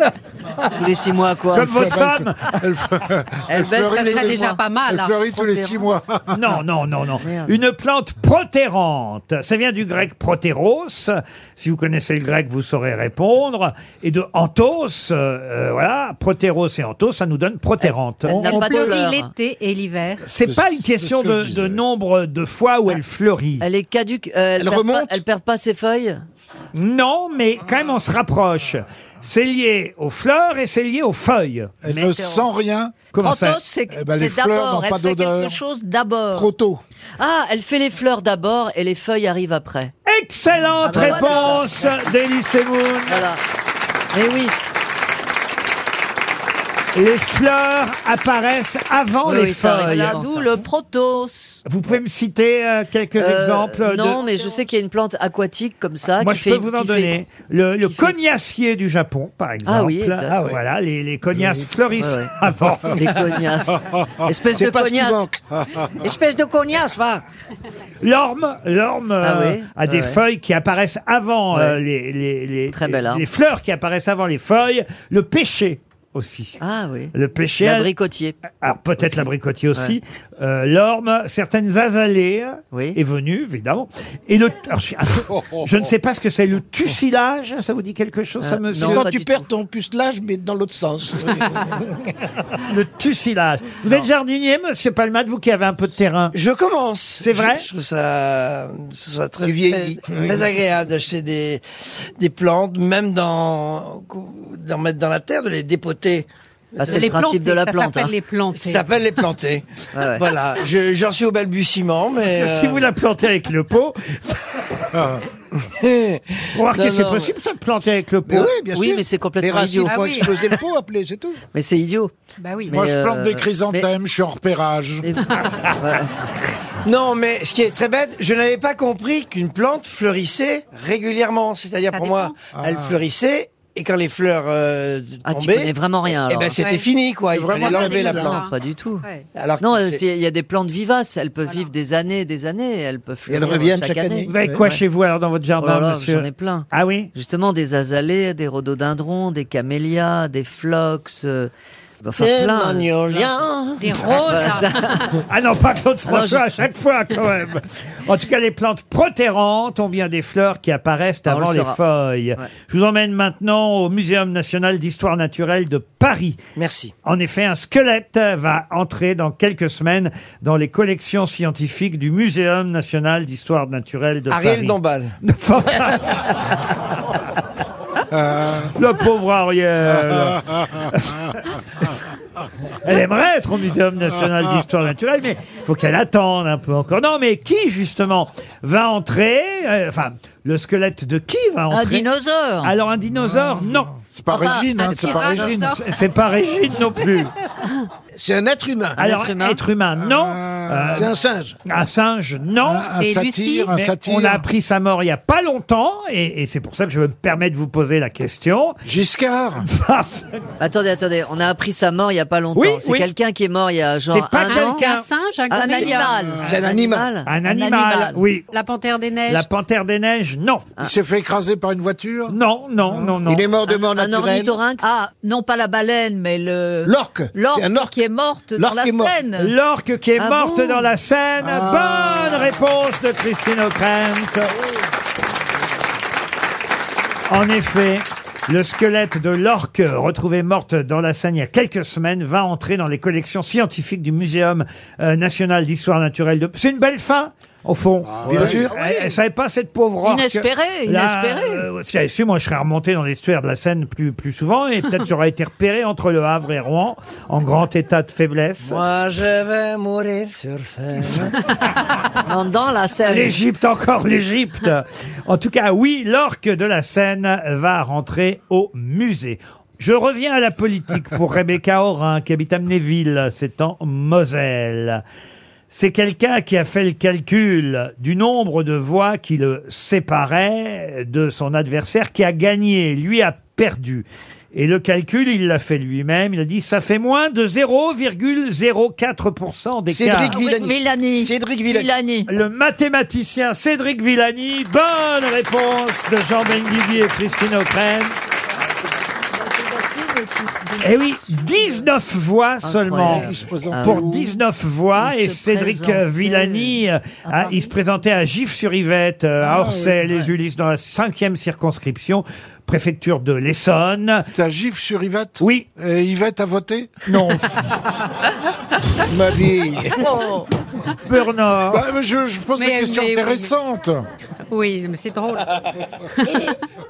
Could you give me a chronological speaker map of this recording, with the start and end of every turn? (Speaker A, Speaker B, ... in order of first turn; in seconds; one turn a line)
Speaker A: 0.7-1.9
Speaker B: 1.5-2.6
Speaker C: 1.5-6.5
Speaker A: 3.5-4.6
Speaker D: 3.8-5.3
Speaker A: 5.3-5.8
Speaker B: 6.3-18.6
Speaker A: 7.2-7.6
Speaker A: 17.8-19.3
Speaker D: 18.3-20.2
Speaker B: 20.2-23.6
Speaker C: 20.4-21.8
Speaker A: 23.6-26.2
Speaker E: 24.6-25.2
Speaker B: 26.7-31.8
Speaker C: 31.8-33.0
Speaker F: 31.9-32.5
Speaker B: 33.1-33.6
Speaker F: 33.2-36.5
Speaker C: 33.9-35.6
Speaker E: 36.3-36.8
Speaker A: 37.2-39.9
Speaker B: 40.0-43.2
Speaker F: 40.8-41.6
Speaker A: 40.8-41.7
Speaker A: 43.1-43.4
Speaker A: 44.1-44.5
Speaker B: 46.9-50.2
Speaker A: 49.2-50.6
Speaker F: 49.8-51.6
Speaker B: 51.6-54.2
Speaker A: 53.2-57.1
Speaker B: 56.2-63.1
Speaker A: 57.8-58.1
Speaker A: 59.6-60.4
Speaker E: 60.3-60.6
Speaker A: 62.0-62.3
Speaker A: 62.9-65.3
Speaker E: 64.4-65.4
Speaker A: 66.0-67.2
Speaker B: 68.0-76.6
Speaker A: 69.2-70.2
Speaker A: 71.5-71.8
Speaker A: 72.7-73.2
Speaker A: 76.6-78.4
Speaker B: 77.1-77.9
Speaker B: 78.5-89.1
Speaker A: 79.0-80.0
Speaker A: 82.7-83.0
Speaker C: 85.3-85.6
Speaker A: 88.4-89.5
Speaker E: 88.8-91.8
Speaker B: 92.6-96.3
Speaker G: 96.3-107.2
Speaker B: 97.2-97.7
Speaker E: 99.4-100.5
Speaker A: 106.8-108.1
Speaker D: 106.8-108.8
Speaker G: 108.5-112.9
Speaker A: 109.9-110.3
Speaker B: 112.3-114.8
Speaker C: 114.9-115.2
Speaker G: 115.6-117.3
Speaker B: 116.5-118.5
Speaker E: 118.3-121.4
Speaker A: 118.7-120.5
Speaker D: 119.8-120.4
Speaker A: 121.5-122.1
Speaker D: 122.4-122.7
Speaker A: 122.7-123.9
Speaker C: 122.7-125.1
Speaker A: 125.0-126.1
Speaker G: 126.8-138.4
Speaker D: 131.9-132.3
Speaker C: 132.5-133.0
Speaker A: 135.2-136.6
Speaker D: 136.6-136.8
Speaker C: 137.3-138.4
Speaker D: 137.5-139.2
Speaker A: 137.6-139.1
Speaker G: 139.3-140.0
Speaker A: 139.6-144.8
Speaker E: 143.3-144.6
Speaker B: 144.3-147.1
Speaker A: 145.6-151.5
Speaker A: 152.0-153.4
Speaker G: 152.2-153.8
Speaker D: 153.8-155.1
Speaker A: 154.0-155.2
Speaker B: 155.2-166.4
Speaker A: 156.1-156.6
Speaker A: 161.3-161.8
Speaker G: 166.6-166.9
Speaker B: 167.0-176.4
Speaker G: 174.3-175.1
Speaker C: 178.1-178.7
Speaker B: 178.7-181.5
Speaker B: 182.8-192.1
Speaker F: 191.7-192.7
Speaker B: 192.6-193.9
Speaker C: 193.1-195.8
Speaker F: 194.3-194.7
Speaker D: 194.8-195.8
Speaker B: 195.6-197.3
Speaker E: 198.1-199.0
Speaker A: 199.0-199.6
Speaker B: 199.0-201.1
Speaker C: 200.0-201.1
Speaker E: 200.9-201.6
Speaker B: 201.6-202.9
Speaker C: 202.6-204.5
Speaker D: 203.0-203.7
Speaker B: 203.7-208.8
Speaker C: 208.8-209.7
Speaker B: 209.6-210.3
Speaker A: 210.6-214.8
Speaker B: 212.5-213.1
Speaker B: 214.1-215.1
Speaker D: 214.5-216.2
Speaker F: 215.5-216.6
Speaker A: 215.5-217.3
Speaker E: 216.4-217.1
Speaker B: 217.2-218.5
Speaker F: 217.4-218.2
Speaker D: 218.5-219.4
Speaker B: 219.3-220.7
Speaker C: 220.8-222.3
Speaker B: 222.3-223.5
Speaker E: 223.2-224.6
Speaker A: 223.6-224.9
Speaker F: 224.8-229.5
Speaker E: 226.8-228.0
Speaker E: 228.6-229.2
Speaker B: 229.4-234.5
Speaker A: 230.2-230.8
Speaker C: 231.4-232.4
Speaker B: 237.3-258.8
Speaker C: 248.0-248.7
Speaker E: 248.2-248.7
Speaker F: 248.7-249.1
Speaker F: 250.0-251.7
Speaker G: 258.6-261.3
Speaker A: 262.2-263.4
Speaker B: 263.0-275.0
Speaker B: 275.7-290.4
Speaker E: 289.9-291.9
Speaker F: 290.2-292.3
Speaker B: 292.3-298.1
Speaker F: 299.7-300.9
Speaker B: 300.8-303.3
Speaker A: 302.6-304.1
Speaker C: 303.1-304.3
Speaker B: 303.8-314.3
Speaker F: 305.0-306.5
Speaker A: 306.3-306.7
Speaker F: 307.2-307.7
Speaker C: 309.4-310.3
Speaker C: 314.3-317.0
Speaker B: 315.4-315.7
Speaker B: 317.1-317.5
Speaker E: 319.1-320.2
Speaker F: 320.0-320.5
Speaker B: 321.0-321.9
Speaker C: 321.7-324.1
Speaker D: 322.6-323.5
Speaker D: 324.5-325.6
Speaker D: 326.2-326.5